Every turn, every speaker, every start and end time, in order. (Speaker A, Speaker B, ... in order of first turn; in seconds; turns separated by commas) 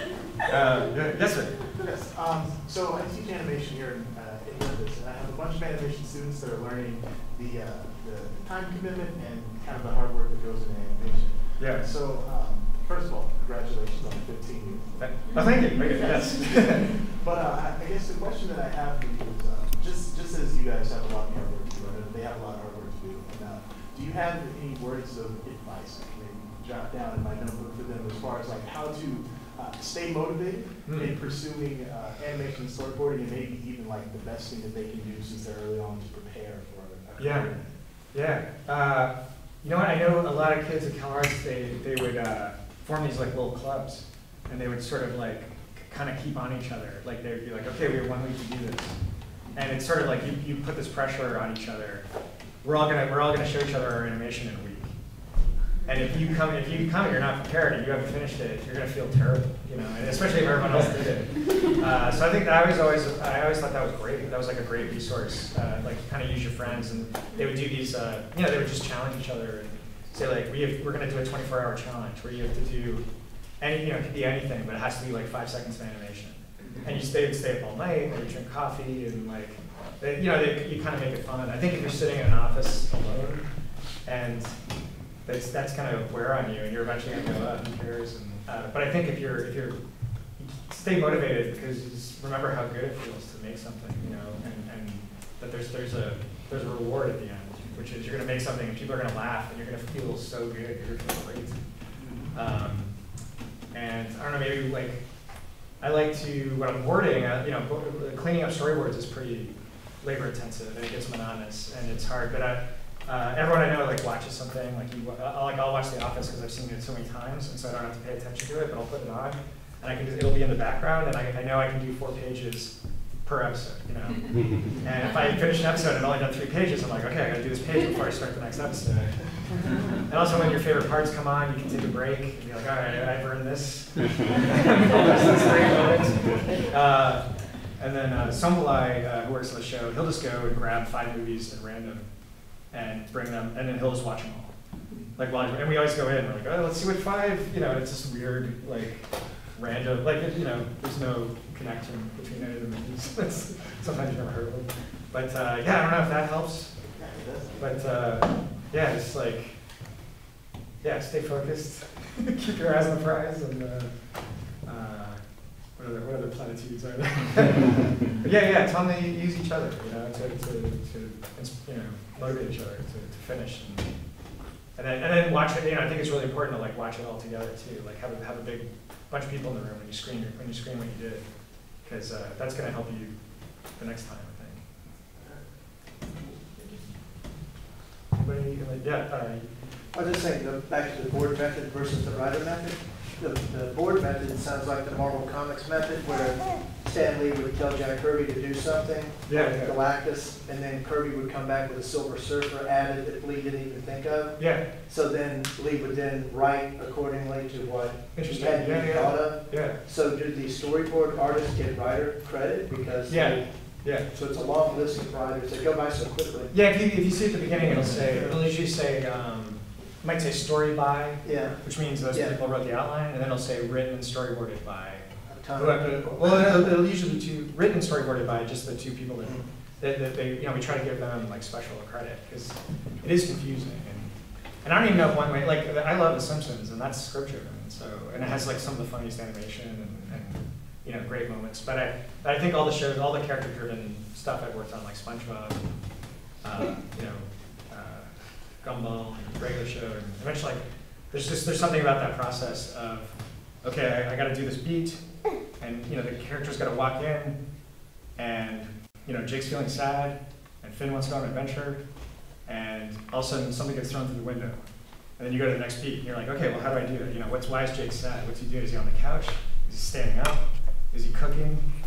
Speaker A: 0.5-1.5, Speaker B: 1.7-15.2, Speaker A: 11.6-11.9, Speaker A: 15.0-16.9, Speaker B: 16.2-37.8, Speaker A: 30.9-31.1, Speaker A: 37.2-37.5, Speaker A: 38.1-49.0, Speaker A: 49.5-52.0, Speaker A: 52.6-54.9, Speaker A: 55.9-73.0, Speaker A: 73.6-83.4, Speaker A: 84.0-84.6, Speaker A: 85.2-89.8, Speaker A: 90.4-101.6, Speaker B: 102.0-102.3, Speaker A: 102.3-103.1, Speaker A: 103.7-105.2, Speaker A: 105.8-142.1, Speaker A: 142.7-144.5, Speaker A: 145.2-156.8, Speaker B: 156.9-157.8, Speaker A: 157.6-159.6, Speaker A: 160.8-174.1, Speaker A: 174.7-184.6, Speaker C: 186.3-186.8, Speaker A: 188.2-189.6, Speaker C: 189.9-216.5, Speaker A: 199.3-199.8, Speaker A: 204.4-204.6, Speaker A: 208.1-209.8, Speaker A: 213.1-214.1, Speaker A: 216.5-245.8, Speaker C: 217.6-218.5, Speaker C: 221.2-222.4, Speaker C: 225.3-226.8, Speaker A: 246.4-257.4, Speaker A: 258.1-261.8, Speaker A: 262.4-264.6, Speaker A: 265.2-271.7